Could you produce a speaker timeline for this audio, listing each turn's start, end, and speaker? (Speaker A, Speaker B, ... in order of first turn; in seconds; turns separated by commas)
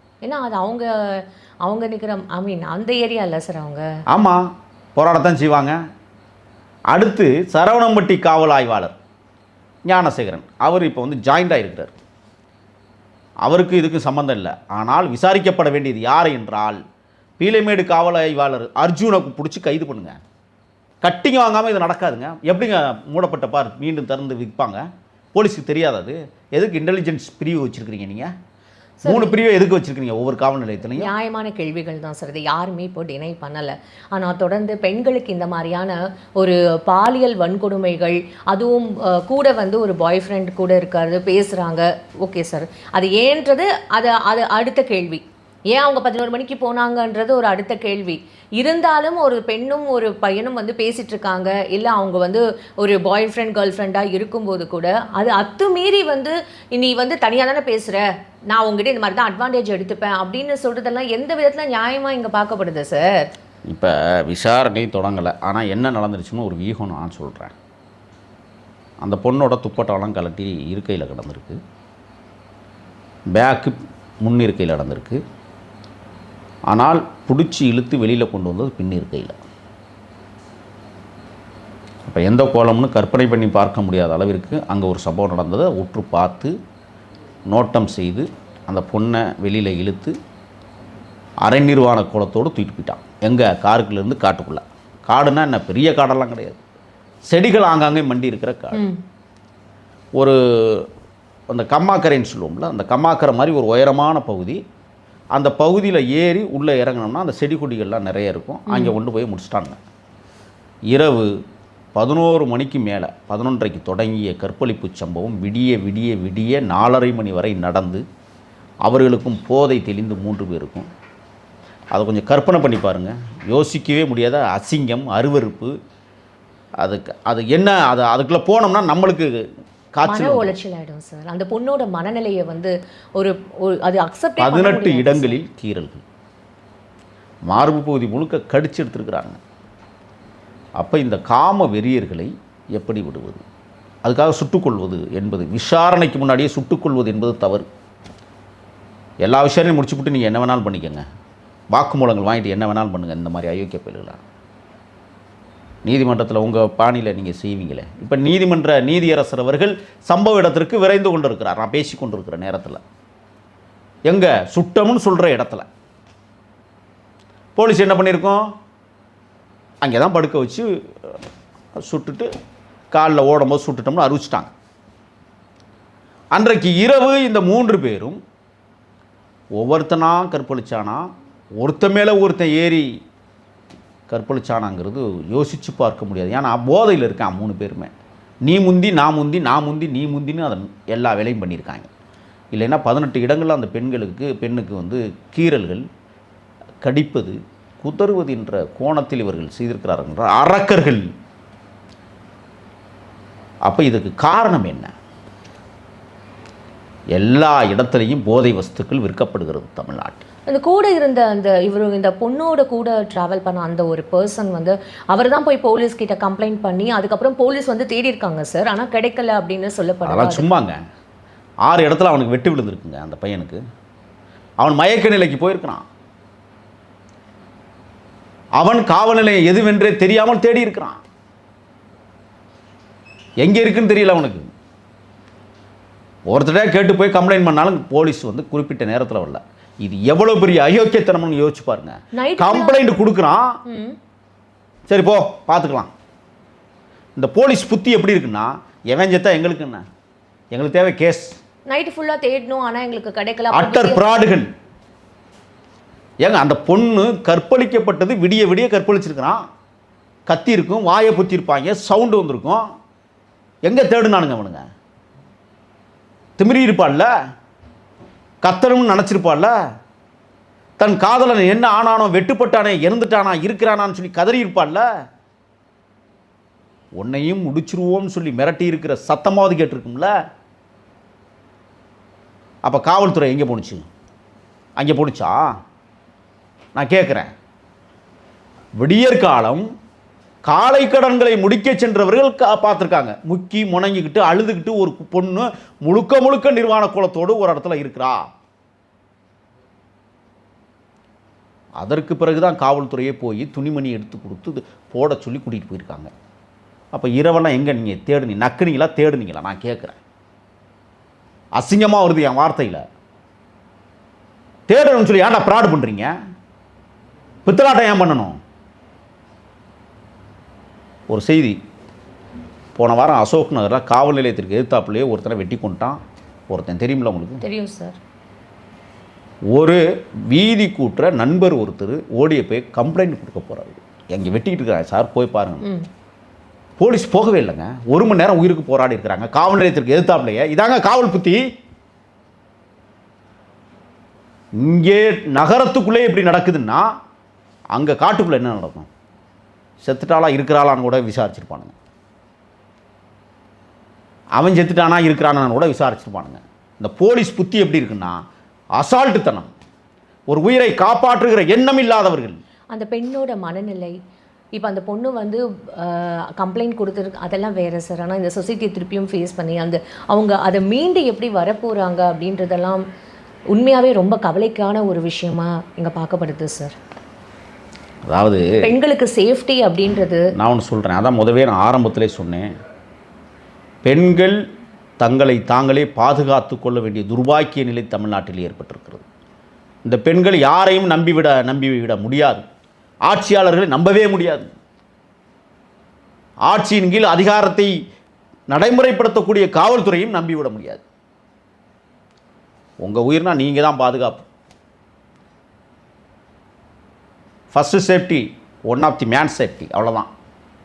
Speaker A: 0.2-3.9, Speaker B: 4.1-5.8, Speaker B: 6.9-9.0, Speaker B: 9.8-11.9, Speaker B: 13.4-16.8, Speaker B: 17.4-20.2, Speaker B: 21.0-24.8, Speaker B: 25.3-28.3, Speaker A: 29.0-29.4, Speaker B: 29.1-31.1, Speaker A: 30.9-63.3, Speaker B: 63.7-67.5, Speaker B: 69.0-71.6, Speaker B: 73.3-75.2, Speaker B: 76.7-79.4, Speaker B: 82.1-86.5, Speaker B: 87.5-90.2, Speaker B: 91.4-96.6, Speaker B: 97.3-98.8, Speaker A: 98.7-99.0, Speaker B: 100.2-100.9, Speaker B: 101.5-104.6, Speaker B: 105.3-109.8, Speaker A: 108.7-108.9, Speaker B: 110.9-111.3, Speaker B: 112.0-118.0, Speaker B: 118.8-120.9, Speaker B: 121.9-125.8, Speaker B: 126.8-129.4, Speaker B: 129.9-130.6, Speaker A: 130.0-135.4, Speaker B: 134.4-136.0, Speaker B: 137.5-139.4, Speaker B: 140.8-143.4, Speaker B: 144.0-147.7, Speaker B: 149.2-151.1, Speaker B: 151.7-154.2, Speaker B: 155.8-162.8, Speaker B: 164.1-165.7, Speaker B: 167.6-168.5, Speaker B: 169.8-171.2, Speaker B: 171.8-172.3, Speaker B: 172.9-174.5, Speaker B: 176.3-178.2, Speaker B: 179.6-181.1, Speaker B: 181.6-182.9, Speaker B: 184.1-187.9, Speaker B: 188.4-191.9, Speaker B: 192.5-195.9, Speaker B: 196.8-201.1, Speaker B: 203.7-204.9, Speaker B: 207.1-210.2, Speaker A: 210.5-220.5, Speaker B: 220.1-220.8, Speaker B: 221.7-223.6, Speaker B: 224.6-225.9, Speaker B: 228.6-231.0, Speaker B: 233.4-234.5, Speaker B: 236.3-243.6, Speaker A: 242.1-242.9, Speaker A: 243.7-244.0, Speaker B: 244.9-245.9, Speaker B: 247.2-249.8, Speaker B: 250.5-251.4, Speaker A: 251.7-254.2, Speaker B: 253.5-254.5, Speaker B: 256.2-259.4, Speaker B: 260.3-262.6, Speaker B: 263.7-264.6, Speaker B: 266.4-267.1, Speaker B: 268.4-269.5, Speaker B: 270.8-274.9, Speaker B: 277.0-280.1, Speaker B: 282.6-283.9, Speaker B: 284.8-285.6, Speaker B: 286.8-287.3, Speaker B: 288.8-289.7, Speaker B: 290.5-298.3, Speaker B: 301.8-306.1, Speaker B: 306.9-310.0, Speaker B: 311.6-312.8, Speaker B: 314.7-316.1, Speaker B: 317.4-318.4, Speaker B: 321.1-321.6, Speaker B: 322.8-327.4, Speaker A: 327.4-328.0, Speaker B: 329.5-335.6, Speaker B: 336.8-341.4, Speaker B: 344.6-346.9, Speaker B: 347.7-348.9, Speaker B: 349.8-351.7, Speaker B: 354.4-358.2, Speaker B: 358.8-359.5, Speaker B: 360.3-362.4, Speaker A: 362.7-364.0, Speaker A: 364.5-372.8, Speaker A: 373.5-376.8, Speaker B: 378.1-378.7, Speaker A: 378.6-380.3, Speaker B: 380.4-382.5, Speaker B: 383.8-384.4, Speaker B: 385.0-389.1, Speaker B: 389.9-392.5, Speaker B: 393.1-394.5, Speaker B: 396.5-397.7, Speaker B: 398.5-400.8, Speaker B: 402.8-404.3, Speaker B: 407.5-410.1